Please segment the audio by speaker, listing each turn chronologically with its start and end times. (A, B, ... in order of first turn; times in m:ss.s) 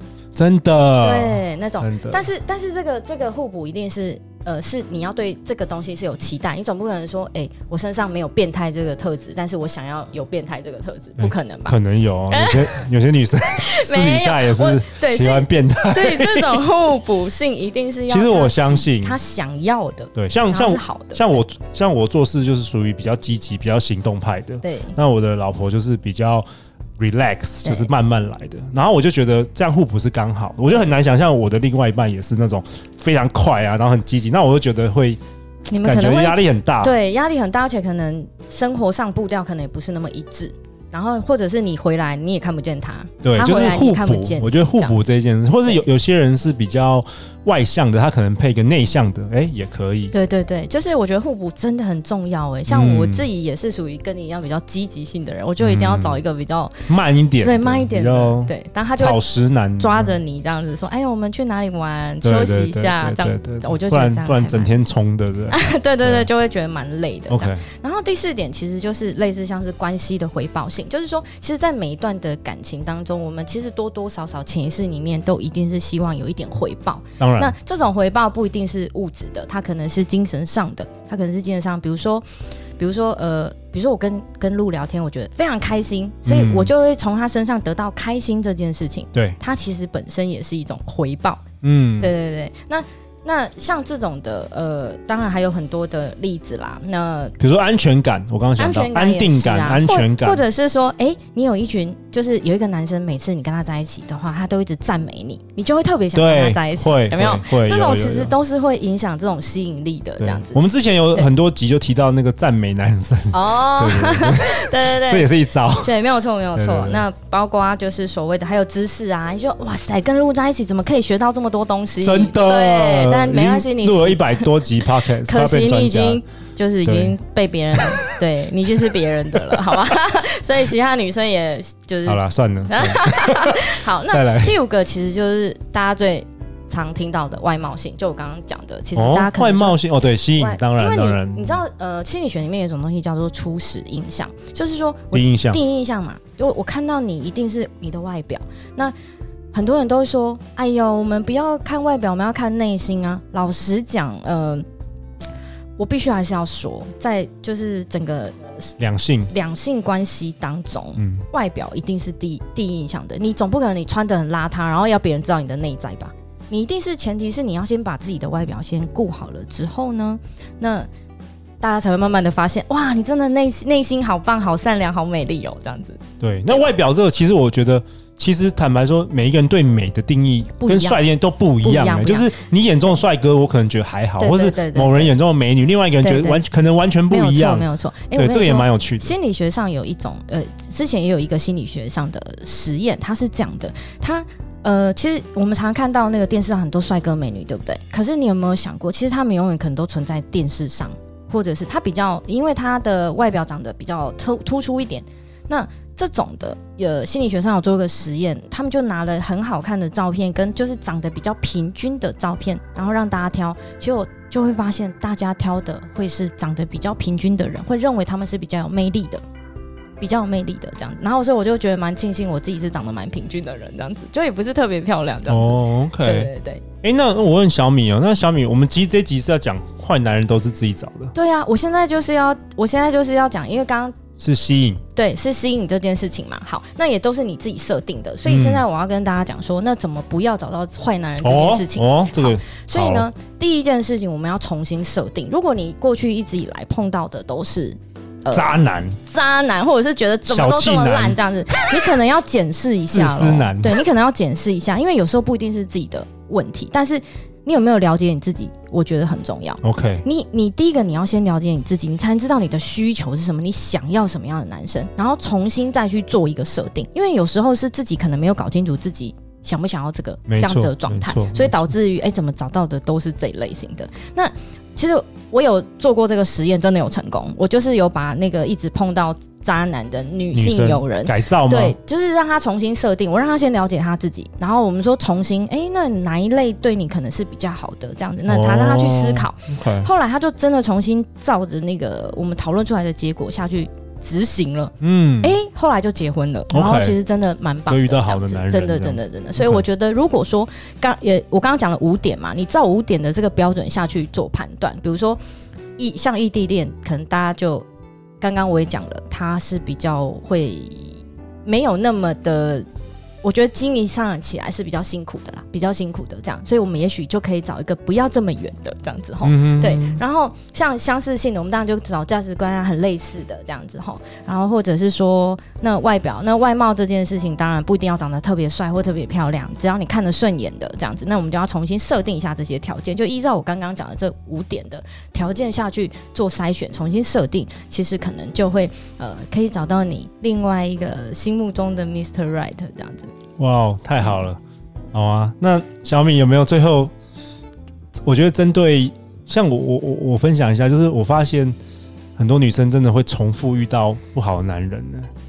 0:00.3-0:02.3 A
0:01.0-0:12.8 B
0:11.2-0:16.6 A
0:13.5-0:21.4 B
0:18.1-0:19.2 A
0:20.1-0:26.4 A
0:24.6-0:25.0 B
0:27.0-0:35.2 A
0:27.6-0:27.9 B
0:35.7-0:45.0 B
0:35.8-0:36.9 A
0:43.2-0:50.1 A
0:50.1-0:56.8 B
0:52.7-0:53.3 A
0:55.6-0:56.2 A
0:56.9-1:00.1 A
0:57.4-1:04.7 B
1:02.2-1:06.3 A
1:05.5-1:22.2 B
1:07.3-1:07.6 A
1:17.2-1:17.5 A
1:22.8-1:31.4 B
1:26.2-1:26.7 A
1:31.6-1:32.1 A
1:32.0-1:37.4 B
1:37.4-1:40.4 A
1:38.6-1:51.3 B
1:46.1-1:48.3 A
1:50.2-1:55.9 A
1:53.3-2:19.8 B
1:56.6-1:57.0 A
2:02.0-2:06.2 A
2:06.8-2:07.2 A
2:12.1-2:14.6 A
2:19.0-2:21.6 A
2:20.4-2:28.9 B
2:25.1-2:25.6 A
2:29.5-2:34.6 B
2:35.8-2:38.7 B
2:38.8-2:39.3 A
2:39.3-2:50.9 B
2:41.0-2:41.2 A
2:51.6-2:56.7 B
2:56.2-3:09.1 A
3:00.6-3:01.0 B
3:01.6-3:02.3 B
3:04.2-3:05.2 B
3:06.0-3:06.4 B
3:07.1-3:39.2 B
3:40.0-3:46.6 B
3:45.2-3:46.3 A
3:46.8-3:51.1 A
3:51.1-3:54.0 B
3:54.2-3:54.8 A
3:54.9-5:05.2 B
3:58.2-3:58.6 A
4:01.2-4:03.1 A
4:08.3-4:09.0 A
4:10.3-4:11.2 A
4:12.9-4:13.8 A
4:19.6-4:20.0 A
4:30.3-4:31.7 A
4:40.3-4:41.8 A
4:48.3-4:49.9 A
4:54.8-4:55.4 A
4:56.5-4:57.0 A
4:57.7-4:59.6 A
5:05.8-5:07.6 B
5:08.2-5:12.6 B
5:13.2-5:43.1 B
5:19.2-5:20.0 A
5:43.4-5:44.4 A
5:44.9-5:46.9 A
5:48.0-5:51.6 A
5:52.2-5:55.1 A